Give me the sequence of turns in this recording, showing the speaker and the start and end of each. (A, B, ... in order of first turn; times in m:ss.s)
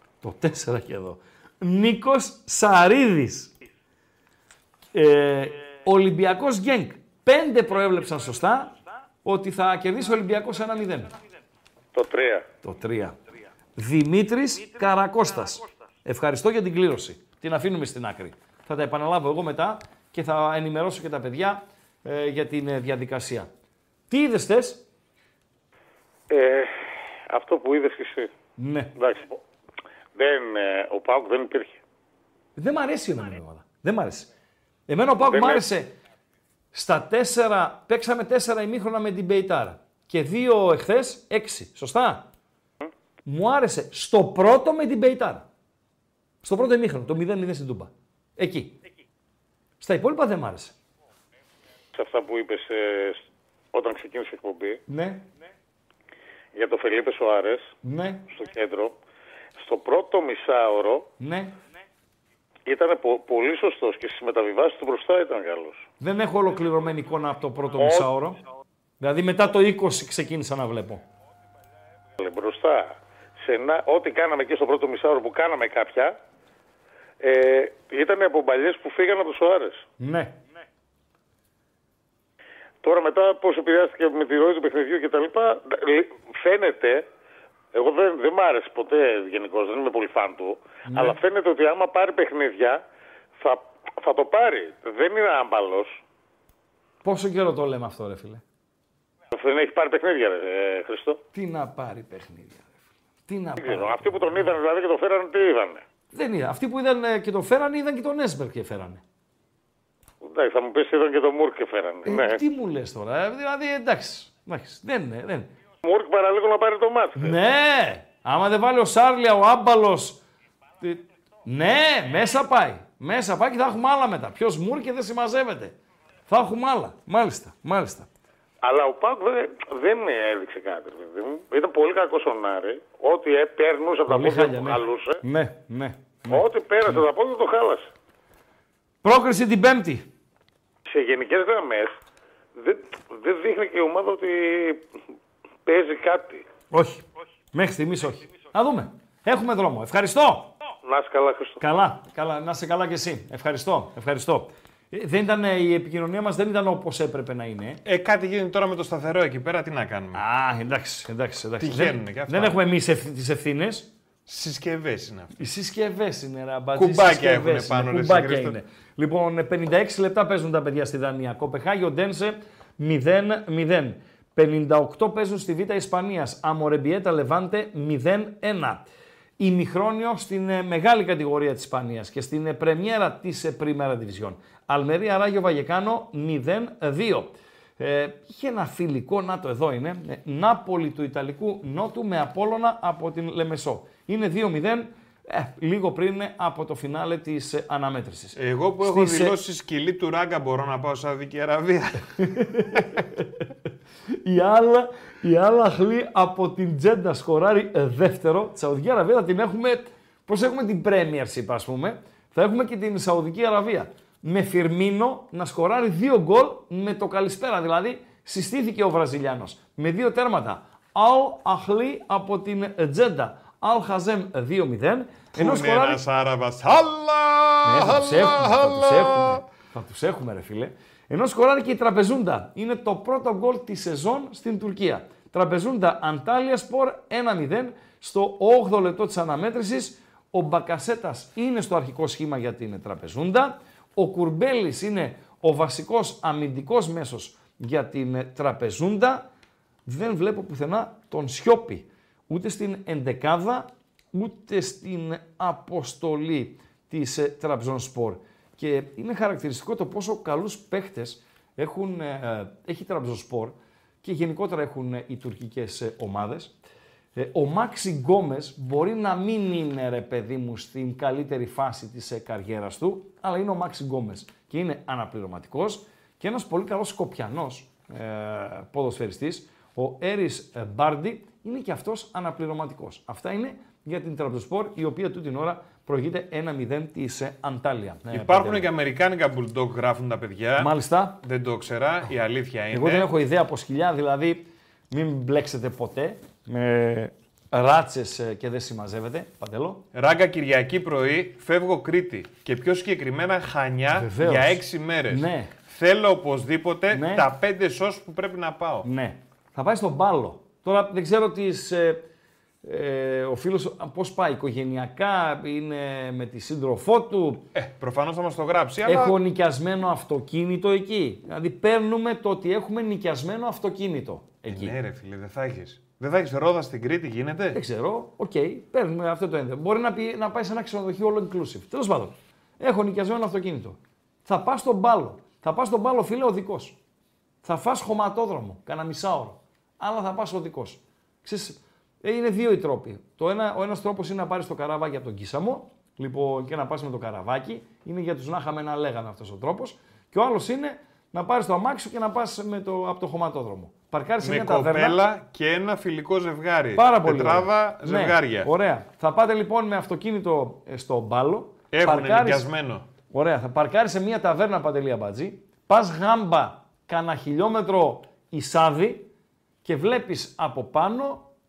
0:00.2-0:03.5 A
0:04.9-0:08.7 A
0:09.2-0:11.1 A
0:11.9-0:12.5 B
0:12.6-0:13.2 A
0:13.8-0:23.5 A
0:24.1-0:24.8 A
0:26.3-0:28.3 B
0:28.6-0:28.9 A
0:29.0-0:29.4 B
0:30.2-0:31.8 B
0:32.6-0:34.3 A
0:34.9-0:35.9 A
0:35.3-0:35.6 B
0:36.7-0:42.3 A
0:43.3-0:45.4 A
0:46.4-0:48.7 A
0:49.8-0:50.8 A
0:52.0-0:54.8 B
0:54.9-0:55.2 A
0:56.6-0:57.7 B
0:57.8-0:58.3 A
0:58.3-0:59.0 B
0:59.6-1:01.1 B
1:01.2-1:01.5 A
1:02.7-1:05.8 B
1:06.0-1:08.4 A
1:07.8-1:08.1 B
1:09.0-1:11.0 A
1:12.2-1:16.2 B
1:17.2-1:19.8 B
1:20.0-1:20.3 A
1:22.8-1:27.0 B
1:27.7-1:32.8 B
1:30.9-1:31.2 A
1:33.4-1:36.0 B
1:37.0-1:38.4 A
1:39.3-1:41.2 B
1:41.3-1:42.8 A
1:43.3-1:44.2 A
1:43.6-1:45.8 B
1:46.1-1:49.0 A
1:50.2-1:52.4 B
1:52.0-1:55.5 A
1:55.8-1:57.4 B
1:57.2-2:00.2 A
2:00.8-2:05.8 A
2:06.3-2:08.1 A
2:08.6-2:15.2 B
2:14.1-2:17.0 A
2:16.3-2:17.9 B
2:19.0-2:20.1 A
2:20.9-2:21.9 B
2:22.6-2:24.9 B
2:25.7-2:26.5 B
2:26.7-2:30.5 A
2:30.8-2:31.6 B
2:31.6-2:37.8 A
2:37.8-2:40.2 C
2:40.1-2:43.9 A
2:41.6-2:42.6 C
2:44.3-2:45.4 C
2:45.4-2:58.8 A
2:46.8-2:48.6 C
2:59.4-3:19.4 A
3:18.4-3:23.0 C
3:22.2-3:23.3 A
3:24.2-3:46.0 A
3:45.3-3:49.4 C
3:47.6-4:09.3 A
4:09.9-4:26.5 A
4:27.2-4:48.7 A
4:48.1-4:53.1 C
4:50.6-4:51.2 A
4:52.7-4:59.8 A
4:59.9-5:08.9 C
5:04.0-5:05.5 A
5:06.9-5:07.3 A
5:08.8-5:12.0 A
5:12.6-5:17.4 A
5:17.5-5:19.2 C
5:18.8-5:24.8 A
5:24.5-5:27.6 C
5:27.5-5:36.8 A
5:37.4-5:55.0 A
5:54.2-5:58.5 C
5:56.8-6:02.5 A
6:01.7-6:02.9 C
6:03.1-6:09.1 A
6:09.6-6:11.3 A